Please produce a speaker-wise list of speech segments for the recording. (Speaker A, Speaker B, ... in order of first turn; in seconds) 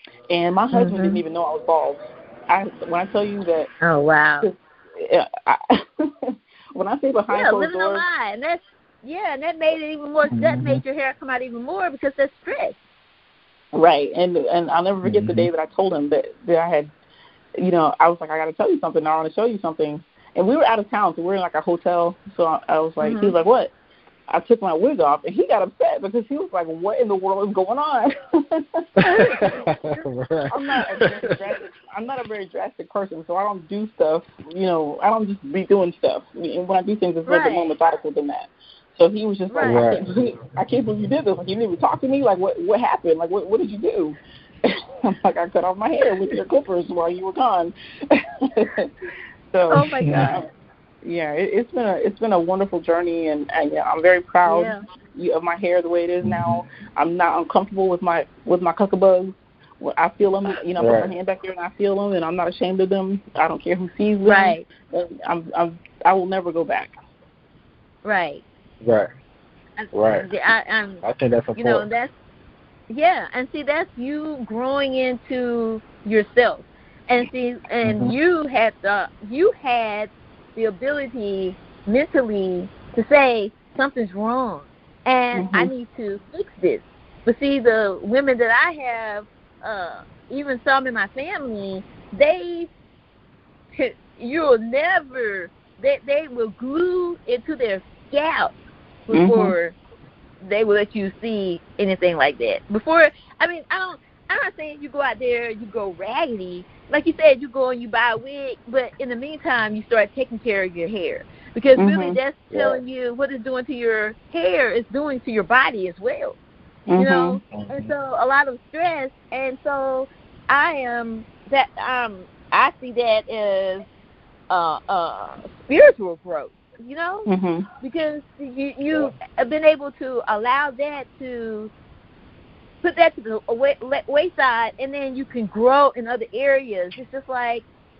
Speaker A: 0.3-3.7, 4.4-8.0, 13.7-16.9, 17.6-23.7, 24.3-28.8, 30.5-48.9, 49.5-50.4, 51.0-67.0, 85.3-85.7, 99.1-99.5, 111.8-112.2, 116.9-117.4, 127.3-127.7
Speaker B: 0.7-1.2, 3.8-4.5, 7.3-12.8, 23.0-23.3, 29.0-30.0, 37.2-37.7, 39.5-39.9, 49.7-50.4, 54.5-54.8, 64.2-64.7, 68.0-68.4, 69.8-71.0, 71.5-72.1, 72.9-92.7, 93.7-98.5, 99.1-99.7, 100.4-116.4, 117.0-123.9, 124.5-127.3, 127.8-131.7, 132.8-137.7
Speaker C: 10.3-10.8, 15.0-15.5, 29.0-31.4, 39.6-40.1, 50.0-50.3, 56.2-56.6, 60.8-61.1, 68.8-69.1, 69.9-70.3, 71.0-71.9, 77.8-78.1, 112.5-112.8, 117.5-117.9